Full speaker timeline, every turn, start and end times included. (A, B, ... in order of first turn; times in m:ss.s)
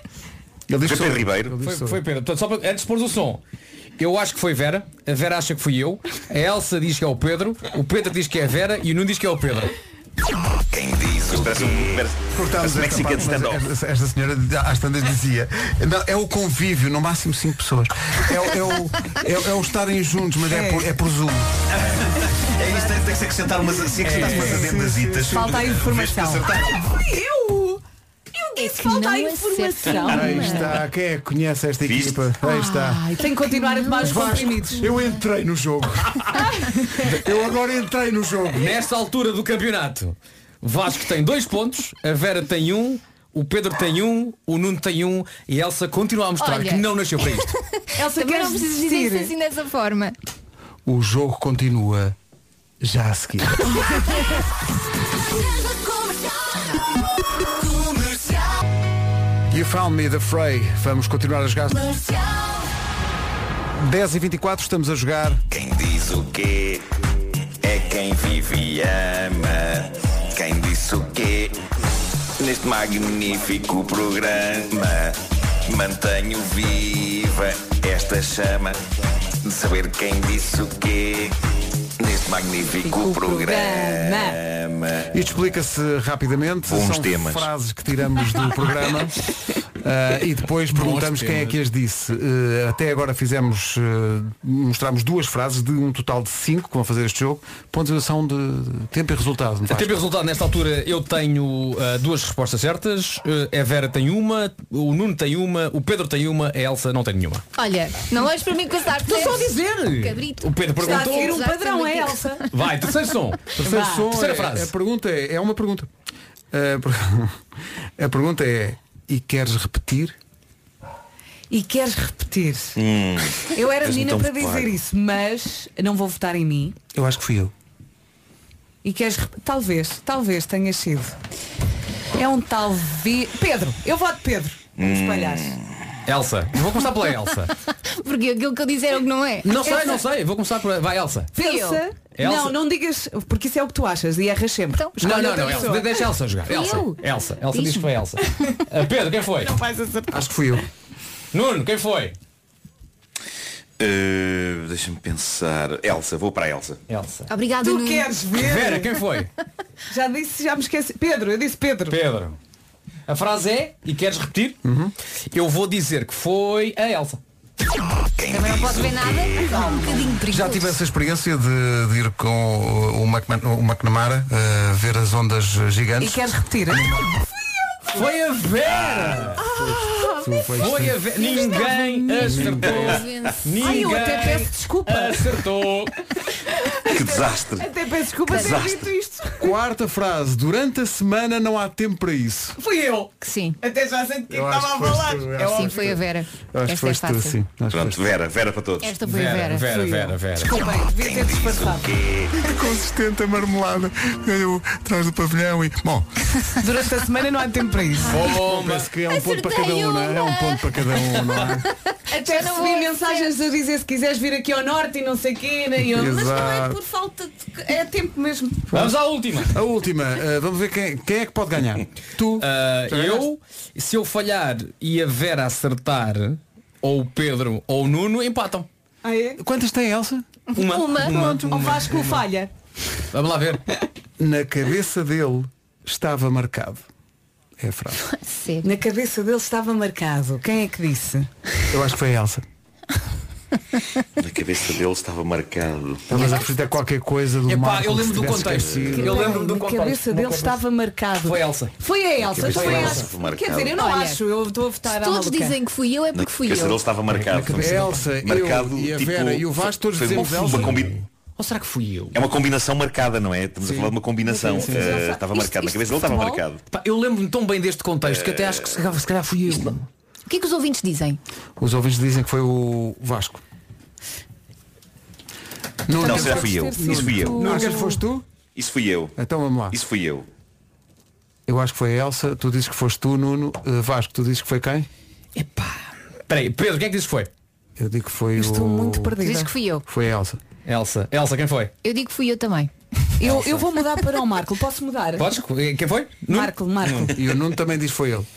0:00.7-0:02.0 A
0:00.8-0:01.6 B
0:01.6-0:03.4 C
0:04.0-0:09.7 C
0:10.7-0:13.6 B
0:12.3-0:21.6 A
0:20.5-0:20.9 D
0:21.7-0:26.9 B
0:24.0-0:24.6 C
0:24.0-0:25.6 A
0:24.2-0:24.7 D
0:25.3-0:27.8 D
0:28.3-0:30.8 D
0:28.6-0:30.8 E
0:30.1-0:33.0 A
0:31.8-0:32.2 B
0:32.4-0:34.9 D
0:33.6-0:34.3 E
0:34.0-0:36.5 A
0:36.5-0:36.9 D
0:37.1-0:38.7 A
0:38.5-0:47.6 C
0:46.4-0:50.2 E
0:48.0-0:49.3 D
0:50.8-0:52.1 A
0:52.8-0:53.8 A
0:59.5-1:02.0 A
1:03.7-1:05.4 A
1:05.5-1:06.8 B
1:07.6-1:11.5 B
1:12.4-1:18.8 B
1:19.4-1:21.3 B
1:22.0-1:25.3 B
1:22.8-1:24.4 D
1:25.1-1:29.2 A
1:26.6-1:27.5 B
1:29.8-1:40.0 A
1:30.7-1:31.6 C
1:39.7-1:47.4 C
1:47.6-1:52.4 E
1:49.0-1:51.5 C
1:49.1-1:49.8 D
1:50.8-1:52.4 D
1:52.5-1:54.7 C
1:53.6-1:54.1 D
1:53.6-1:55.9 A
1:56.5-1:57.4 A
1:58.0-2:00.2 A
2:01.5-2:02.8 D
2:02.8-2:04.7 B
2:03.5-2:06.8 D
2:06.9-2:07.5 A
2:08.8-2:11.1 D
2:12.2-2:15.6 D
2:14.8-2:15.6 B
2:16.0-2:17.5 C
2:17.8-2:20.0 E
2:19.4-2:21.4 C
2:19.7-2:20.0 D
2:21.3-2:26.0 D
2:21.4-2:21.8 E
2:22.2-2:22.6 C
2:24.8-2:25.8 E
2:25.0-2:29.5 C
2:26.4-2:27.9 E
2:29.3-2:30.6 D
2:30.1-2:30.6 A
2:31.3-2:32.2 C
2:33.8-2:36.8 B
2:36.9-2:37.3 C
2:37.3-2:38.1 E
2:37.6-2:38.9 D
2:38.4-2:39.3 C
2:39.9-2:42.0 D
2:41.9-2:42.4 C
2:43.1-2:44.6 C
2:44.6-2:44.9 A
2:45.3-2:47.2 C
2:48.2-2:49.4 B
2:48.3-2:50.7 E
2:49.6-2:50.0 D
2:50.3-2:57.1 A
2:56.0-2:57.0 D
2:57.9-2:59.4 C
2:58.6-2:59.4 B
2:59.4-3:00.6 D
2:59.4-3:01.0 A
3:00.6-3:05.9 C
3:01.2-3:04.0 E
3:01.2-3:01.9 D
3:02.2-3:03.0 A
3:03.6-3:05.4 D
3:06.7-3:09.5 D
3:06.9-3:07.7 B
3:08.3-3:08.6 E
3:08.3-3:08.9 B
3:09.4-3:12.6 A
3:12.6-3:16.0 D
3:13.2-3:13.6 E
3:14.3-3:16.0 A
3:15.4-3:17.3 E
3:16.5-3:18.0 A
3:17.7-3:18.9 B
3:18.8-3:19.6 E
3:19.0-3:20.6 C
3:19.6-3:22.0 D
3:21.0-3:22.3 B
3:22.4-3:26.1 A
3:26.5-3:28.2 D
3:28.1-3:28.9 C
3:28.3-3:31.6 A
3:29.1-3:30.7 E
3:32.1-3:33.3 E
3:32.1-3:38.7 D
3:35.8-3:36.8 A
3:38.7-3:39.6 C
3:38.7-3:43.3 A
3:42.4-3:48.7 C
3:49.0-3:49.4 D
3:49.4-3:50.4 A
3:50.5-3:52.2 C
3:50.6-3:52.5 D
3:51.0-3:52.2 A
3:53.1-3:53.6 C
3:54.2-3:56.8 A
3:57.6-3:58.0 A
3:58.1-3:58.7 E
3:58.6-4:01.3 D
4:01.7-4:02.4 A
4:04.2-4:06.1 B
4:06.1-4:09.3 A
4:06.1-4:06.5 E
4:07.4-4:10.6 C
4:08.9-4:15.5 D
4:11.1-4:11.7 C
4:12.2-4:13.8 B
4:12.4-4:13.1 C
4:13.8-4:14.2 E
4:14.8-4:16.8 E
4:16.2-4:21.0 B
4:17.1-4:20.9 A
4:20.1-4:22.2 C
4:22.1-4:26.6 B
4:23.6-4:25.0 A
4:24.2-4:26.4 D
4:26.7-4:29.8 C
4:28.0-4:28.8 B
4:30.3-4:31.2 E
4:31.6-4:33.4 A
4:35.8-4:38.2 A
4:36.0-4:38.0 D
4:36.0-4:37.6 B
4:37.4-4:37.9 C
4:38.5-4:39.1 B
4:39.2-4:39.8 A
4:39.7-4:40.2 B
4:41.5-4:44.9 A
4:45.3-4:47.3 C
4:47.8-4:49.2 A
4:48.3-4:49.5 D
4:49.2-4:49.8 E
4:49.9-4:50.4 A
4:50.6-4:51.7 C
4:51.8-4:52.7 E
4:53.2-4:55.3 D
4:53.2-4:53.6 C
4:55.2-4:56.5 C
4:56.3-4:57.2 D
4:56.9-4:57.1 B
4:57.1-4:58.3 A